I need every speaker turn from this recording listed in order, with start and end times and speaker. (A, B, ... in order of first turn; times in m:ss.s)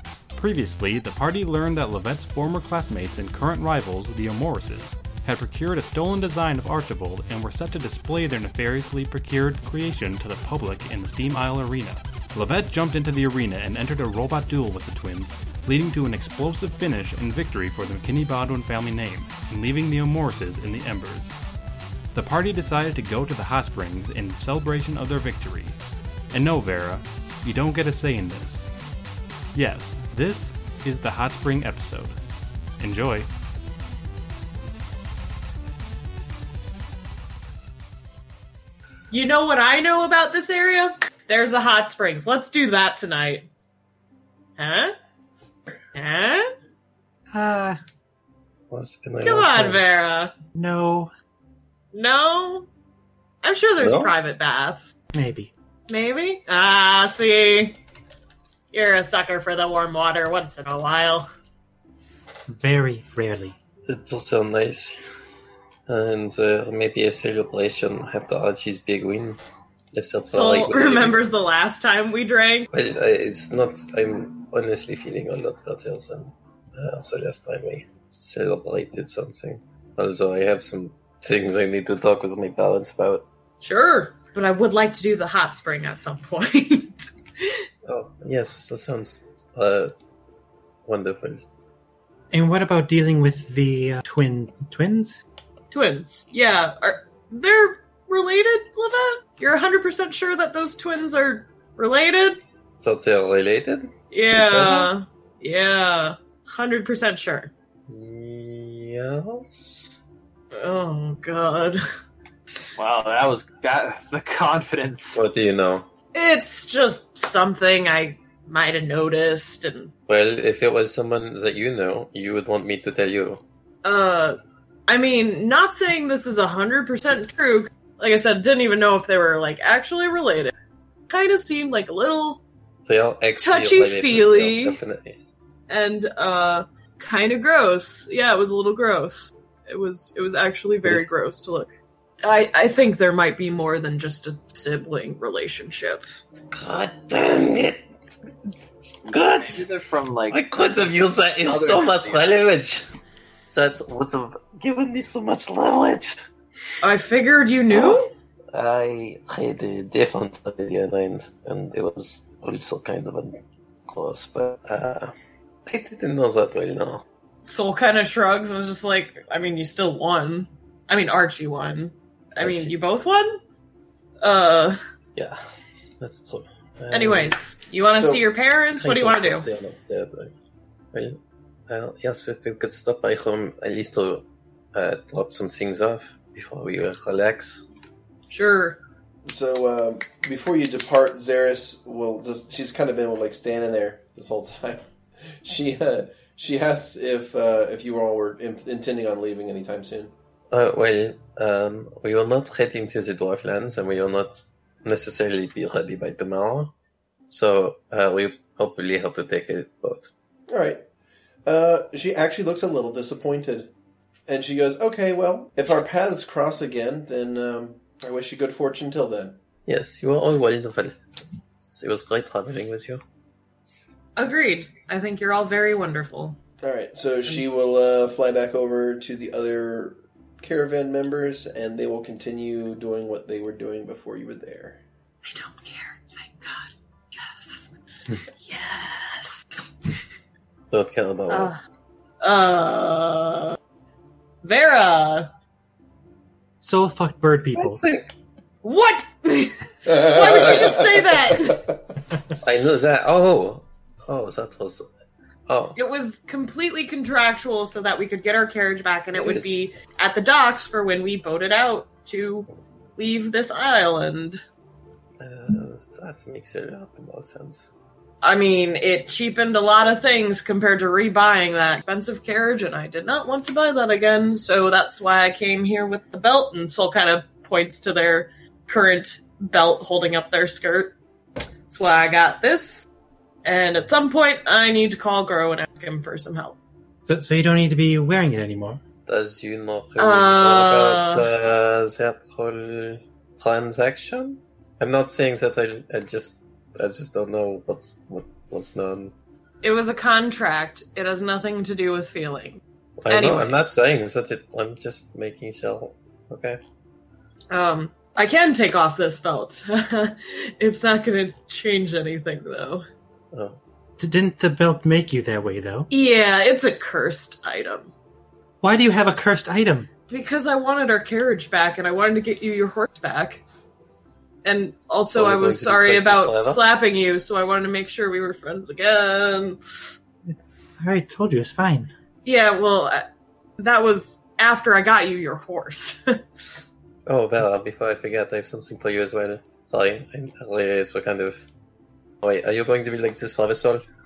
0:00.3-0:21.3 A
0:22.1-0:25.8 A
0:26.3-0:28.7 A
0:29.5-0:32.2 A
0:32.8-0:33.3 A
0:39.1-0:43.5 B
0:44.6-0:44.9 B
0:45.9-0:46.5 B
0:47.3-0:47.8 C
0:48.7-0:49.8 D
0:49.2-0:50.3 B
0:50.5-0:51.1 C
0:51.9-0:52.7 B
0:53.4-0:55.0 B
0:53.8-0:54.1 D
0:55.1-0:55.5 C
0:55.9-0:57.8 B
0:58.7-1:01.3 B
1:02.5-1:03.6 C
1:03.9-1:05.0 D
1:05.9-1:09.4 D
1:09.9-1:11.3 D
1:10.3-1:12.7 B
1:12.7-1:23.3 D
1:23.6-1:27.6 B
1:27.9-1:29.9 D
1:30.8-1:31.4 D
1:32.3-1:35.2 C
1:35.7-1:42.4 B
1:42.8-1:44.9 D
1:44.1-1:47.5 B
1:47.9-1:50.0 D
1:50.5-1:51.8 B
1:52.8-1:55.2 E
1:55.2-1:55.9 D
1:56.1-1:59.9 B
2:00.1-2:03.4 D
2:03.8-2:10.5 B
2:11.1-2:12.4 B
2:12.8-2:15.2 D
2:13.4-2:14.8 B
2:15.7-2:21.7 B
2:22.2-2:26.0 B
2:26.5-2:27.8 D
2:28.8-2:29.7 D
2:29.4-2:30.4 E
2:30.3-2:32.8 D
2:31.5-2:32.3 E
2:33.5-2:36.2 D
2:36.8-2:38.1 B
2:37.7-2:45.1 D
2:45.7-2:47.0 D
2:47.4-2:53.4 B
2:52.4-2:52.7 D
2:54.2-2:54.8 B
2:56.0-2:57.4 D
2:56.9-2:59.5 B
2:57.9-2:58.2 F
2:58.8-3:00.3 D
3:01.7-3:07.6 D
3:08.3-3:08.8 B
3:09.3-3:20.1 F
3:20.5-3:26.7 D
3:27.3-3:30.1 D
3:30.5-3:30.8 F
3:31.5-3:33.7 F
3:34.3-3:39.4 F
3:39.7-3:41.0 D
3:41.7-3:43.0 D
3:44.2-3:46.4 B
3:46.6-3:54.8 F
3:55.2-3:57.7 B
3:58.4-3:59.6 B
4:00.7-4:01.5 D
4:01.3-4:01.6 B
4:02.2-4:03.6 B
4:04.4-4:05.3 B
4:06.6-4:07.8 C
4:07.6-4:08.1 D
4:08.6-4:11.7 B
4:09.9-4:10.6 F
4:10.1-4:11.4 D
4:12.4-4:14.8 D
4:15.5-4:15.8 D
4:15.8-4:24.4 B
4:19.2-4:19.6 D
4:25.2-4:27.7 D
4:28.2-4:41.0 B
4:41.7-4:42.9 B
4:43.4-4:46.6 B
4:47.1-4:48.8 C
4:49.1-4:59.1 D
4:50.0-4:51.2 B
4:59.6-5:03.7 B
5:03.0-5:06.6 D
5:07.5-5:12.8 B
5:13.3-5:13.6 D
5:14.0-5:15.9 C
5:15.9-5:17.9 B
5:18.6-5:19.9 C
5:20.1-5:23.4 B
5:24.4-5:29.9 B
5:25.1-5:26.6 D
5:30.8-5:31.9 C
5:32.2-5:33.1 B
5:33.6-5:36.2 B
5:37.1-5:41.4 D
5:42.2-5:43.8 D